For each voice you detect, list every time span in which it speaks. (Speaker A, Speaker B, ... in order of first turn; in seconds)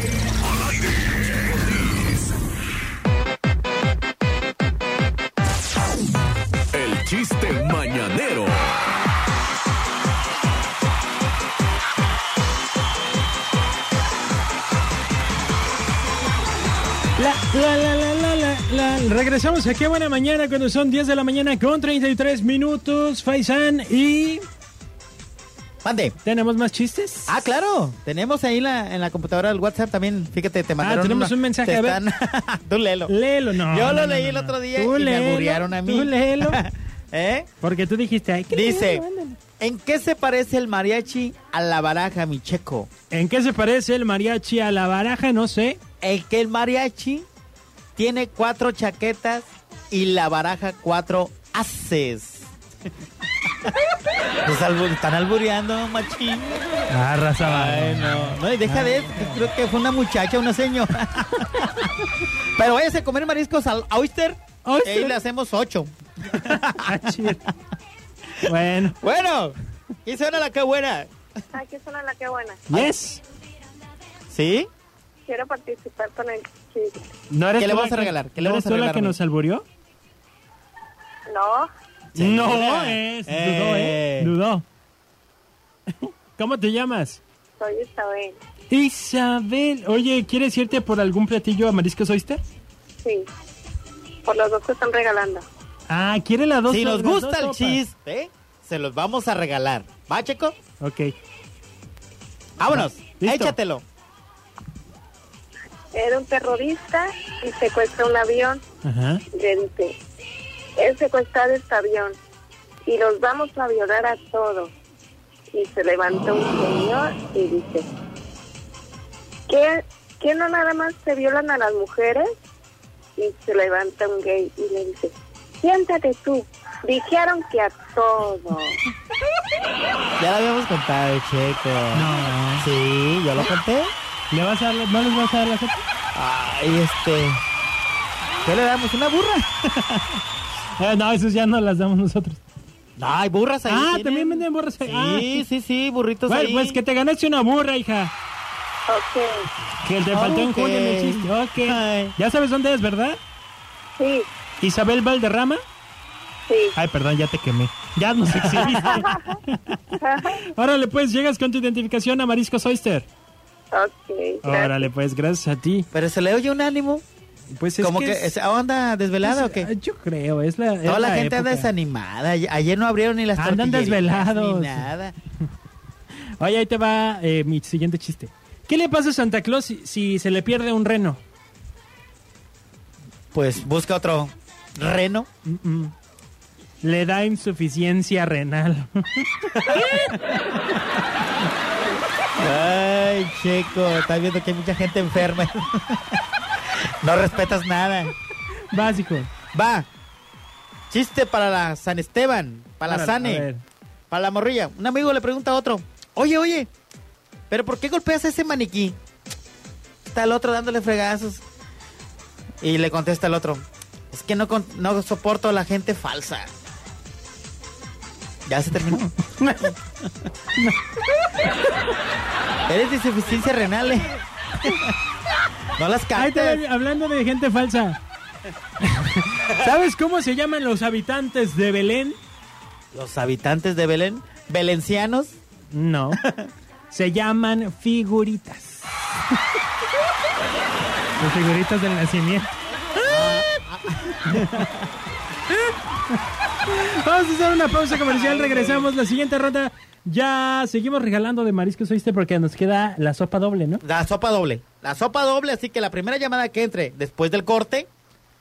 Speaker A: 0.4-2.3, 6.7-8.9
Speaker B: 17.2-24.4, 26.2-27.4, 30.8-32.0, 33.1-36.6, 37.6-39.4, 43.1-45.8, 56.9-59.2, 64.7-65.2, 66.3-67.5, 68.4-69.0, 72.7-73.2, 77.3-79.7, 82.2-84.7, 86.0-87.2, 88.7-92.5, 95.9-97.8, 100.8-101.1, 102.7-103.5, 108.8-109.2, 131.9-132.7, 134.3-135.8, 140.8-142.4, 143.7-145.5, 146.3-148.1, 149.8-153.2, 154.6-155.6, 156.8-163.1, 164.4-165.9, 167.5-168.3, 169.2-171.7, 173.4-174.9, 176.4-181.2, 185.5-185.9, 186.8-189.7, 198.7-199.3, 202.9-203.6, 219.2-219.7, 226.2-228.0, 228.8-232.2, 235.7-236.2, 236.9-239.3, 241.2-242.5, 243.1-243.3, 244.2-244.7, 245.5-253.8
Speaker C: 25.8-26.2, 27.3-37.5, 38.5-39.1, 39.6-42.9, 46.0-47.3, 48.0-52.5, 54.5-56.6, 57.4-61.9, 62.5-67.4, 68.4-71.1, 74.3-74.7, 77.6-79.2, 82.2-84.4, 96.7-100.6, 102.6-103.8, 130.2-133.9, 136.2-137.4, 138.4-140.2, 143.0-146.8, 150.1-152.2, 158.4-158.9, 165.9-167.0, 167.8-169.7, 170.8-175.2, 183.3-185.3, 189.6-190.3, 192.4-198.1, 199.5-199.9, 200.9-203.5, 204.1-206.7, 207.5-209.0, 210.1-211.4, 212.6-216.6, 218.5-219.1, 222.7-224.9, 225.8-226.6, 232.9-235.4, 236.2-236.5, 243.0-244.9, 248.0-248.9, 253.8-257.9
Speaker D: 71.5-72.6, 75.3-77.1, 81.3-81.7, 87.6-88.4, 93.0-93.3, 94.2-95.4, 105.9-108.6, 109.3-110.0, 110.8-112.2, 112.8-114.7, 115.5-117.9, 119.5-122.3, 123.2-128.8, 148.9-149.4, 154.0-154.3, 156.5-156.8, 158.8-159.4, 160.0-160.4, 163.7-164.9